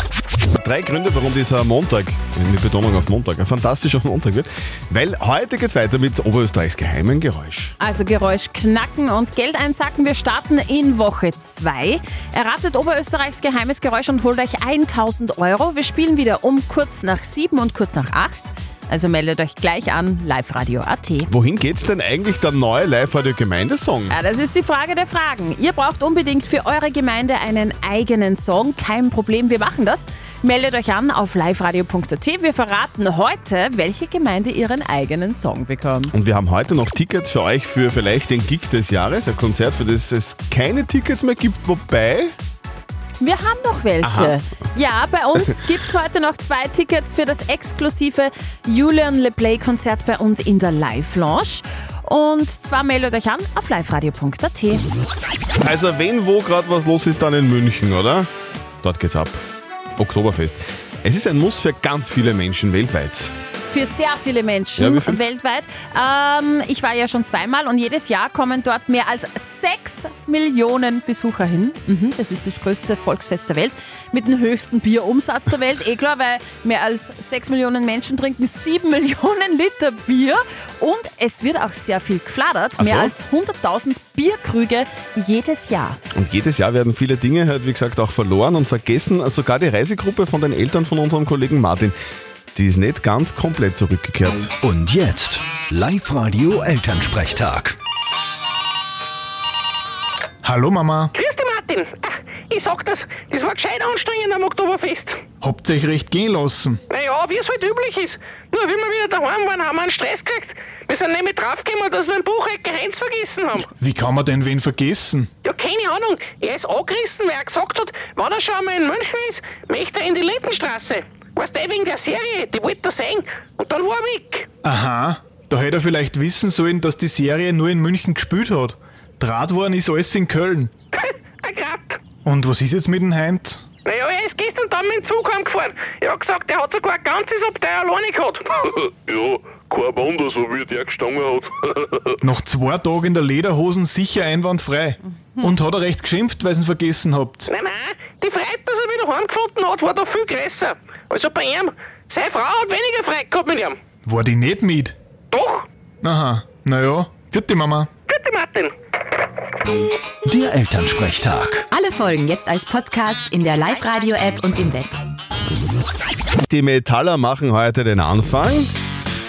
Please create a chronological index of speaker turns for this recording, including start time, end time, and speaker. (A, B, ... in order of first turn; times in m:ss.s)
0:00.6-0:07.7 A
0:07.8-0:21.3 B
0:21.3-0:24.2 A
0:24.1-0:36.1 B
0:36.1-0:42.4 A
0:43.2-0:54.8 B
0:44.0-0:44.4 A
0:55.6-0:58.3 A
0:58.8-0:59.4 A
1:00.0-1:03.3 A
1:03.4-1:26.0 B
1:04.8-1:05.2 A
1:22.8-1:23.1 A
1:26.1-1:32.0 A
1:32.5-1:34.5 A
1:34.6-1:37.8 C
1:40.4-1:41.1 D
1:41.2-1:45.2 E
1:45.4-1:46.8 D
1:46.9-1:53.7 E
1:53.8-1:55.3 D
1:55.4-2:04.5 E
2:04.6-2:10.7 D
2:10.9-2:12.0 E
2:12.2-2:13.6 D
2:13.8-2:18.9 E
2:19.1-2:21.3 F
2:22.2-2:27.5 D
2:27.5-2:33.8 E
2:34.0-2:34.9 D
2:35.3-2:35.7 E
2:36.0-2:37.9 D
2:38.1-2:38.7 E
2:40.2-2:41.7 C
2:41.7-2:44.9 G
2:46.5-2:48.7 A